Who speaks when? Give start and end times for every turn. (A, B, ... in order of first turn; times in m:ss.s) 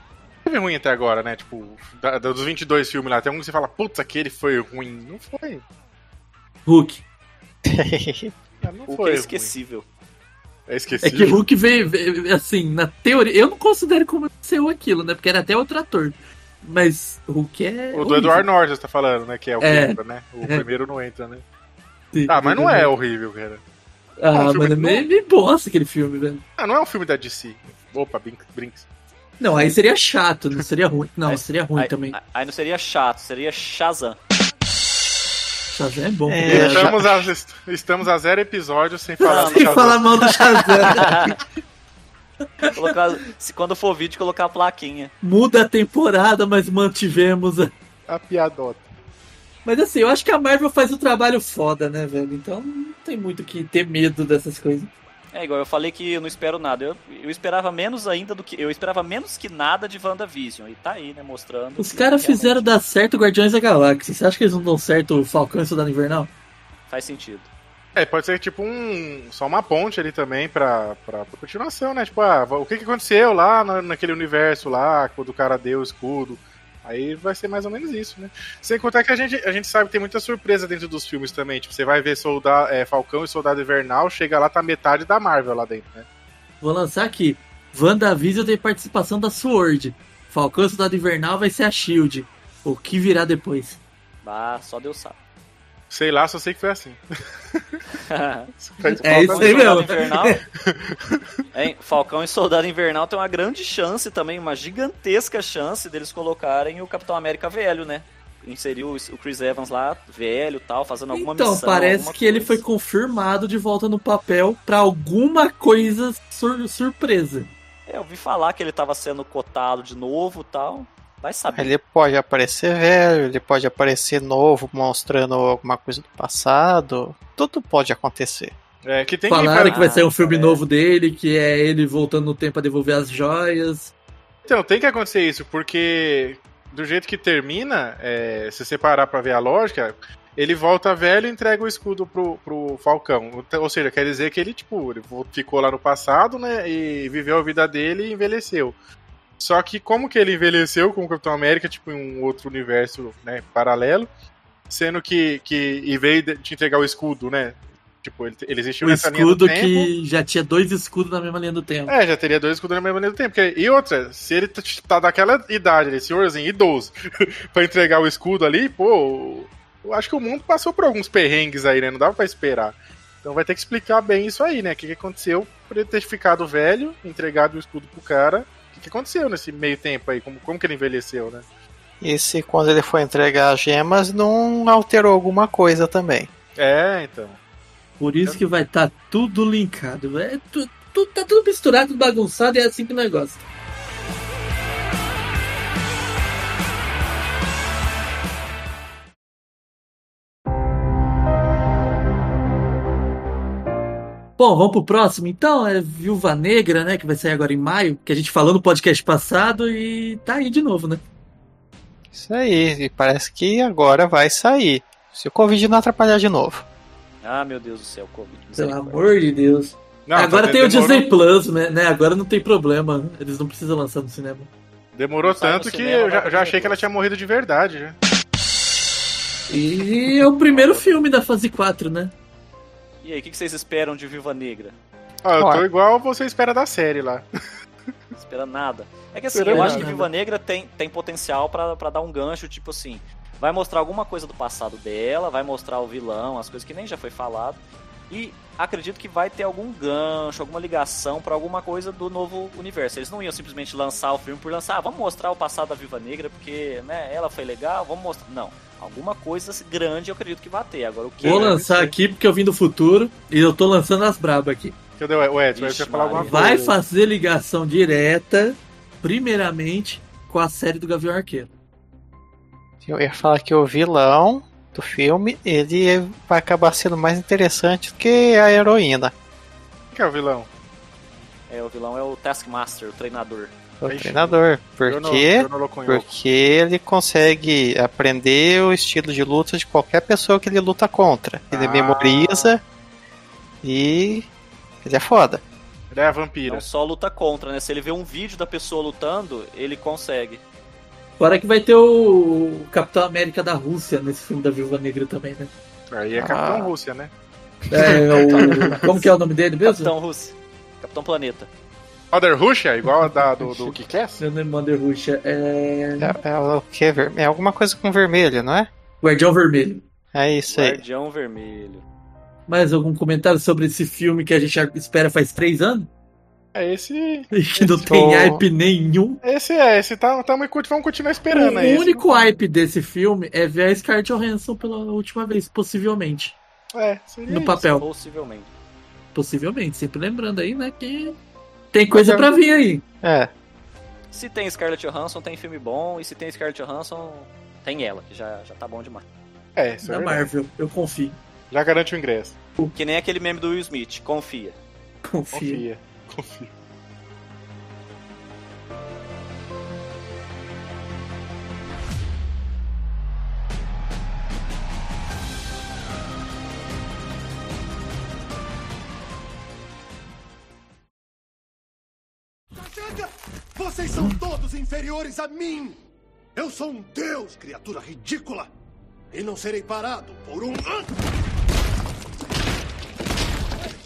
0:00.4-0:05.6 A
0:06.7-0:07.0 B
0:07.6-0:08.3 C
0:08.6-0:09.5 A
0:08.9-0:09.9 D
0:10.7-0:11.4 A
0:11.0-0:18.5 B
0:17.9-0:21.4 A
0:19.6-0:20.6 B
0:22.1-0:22.9 B
0:22.3-0:23.6 A
0:24.2-0:26.4 B
0:24.3-0:25.1 A
0:26.6-0:28.9 A
0:29.4-0:32.2 B
0:31.2-0:34.2 D
0:35.7-0:36.9 B
0:36.3-0:37.3 C
0:36.5-0:40.3 A
0:39.2-0:41.4 B
0:39.2-0:41.4 D
0:42.6-0:42.9 B
0:42.7-0:45.1 D
0:45.2-0:47.7 B
0:48.1-0:48.9 A
0:49.6-0:54.9 B
0:55.3-1:02.7 D
1:01.8-1:06.3 B
1:06.9-1:07.5 D
1:08.0-1:26.1 A
1:26.6-1:33.8 B
1:34.2-1:35.2 D
1:35.9-1:37.0 A
1:38.0-1:40.4 D
1:38.6-1:40.1 A
1:39.0-1:40.4 B
1:40.6-1:41.2 A
1:41.5-1:52.6 D
1:51.1-1:57.5 B
1:57.9-2:01.7 D
2:01.5-2:08.6 C
2:08.8-2:09.8 A
2:09.3-2:13.9 B
2:09.7-2:10.6 D
2:14.4-2:28.8 A
2:29.4-2:34.1 A
2:34.7-2:39.9 A
2:38.8-2:41.9 B
2:41.9-3:01.5 A
3:02.0-3:06.3 C
3:06.6-3:07.4 A
3:08.0-3:13.4 B
3:24.4-3:31.0 B
3:32.1-3:36.6 C
3:37.2-3:39.1 D
3:38.6-3:44.5 B
3:40.1-3:41.1 A
3:45.0-3:48.0 A
3:45.2-3:46.9 D
3:49.5-3:52.1 B
3:50.5-3:51.0 D
3:53.0-3:54.8 D
3:55.2-3:57.2 A
3:55.4-3:55.7 C
3:58.2-4:21.6 D
3:59.4-3:59.9 A
3:59.4-4:00.1 B
4:21.2-4:21.9 A
4:21.2-4:24.8 B
4:25.0-4:26.8 A
4:25.5-4:26.5 D
4:26.2-4:31.5 B
4:32.8-4:39.1 C
4:39.9-4:40.5 A
4:41.5-4:43.5 D
4:43.8-4:52.6 C
4:43.9-4:46.1 A
4:51.5-4:52.6 A
4:53.6-4:54.3 C
4:54.8-4:55.4 C
4:55.9-4:56.7 A
4:56.5-5:00.4 D
5:01.2-5:05.5 B
5:05.9-5:07.1 A
5:06.2-5:06.7 C
5:07.7-5:09.9 B
5:08.2-5:09.0 A
5:08.5-5:08.9 D
5:09.6-5:11.5 D
5:12.1-5:14.2 A
5:12.8-5:16.2 B
5:16.0-5:18.7 C
5:19.0-5:19.8 B
5:20.1-5:20.8 C
5:20.5-5:21.8 D
5:22.5-5:25.9 B
5:26.6-5:27.8 A
5:27.3-5:29.2 B
5:27.9-5:28.4 C
5:29.2-5:32.3 A
5:31.3-5:36.4 B
5:36.7-5:37.6 A
5:37.3-5:37.9 B
5:37.7-5:38.5 D
5:39.1-5:41.2 B
5:41.7-5:42.8 B
5:41.9-5:42.3 C
5:43.0-5:43.3 C
5:44.1-5:49.0 D
5:49.6-5:50.3 A
5:49.8-5:51.2 B
5:51.5-5:52.4 A
5:52.8-5:54.6 D
5:55.0-5:55.6 B
5:55.3-5:56.5 A
6:12.6-6:15.8 E
6:16.4-6:18.5 E
6:19.1-6:21.0 E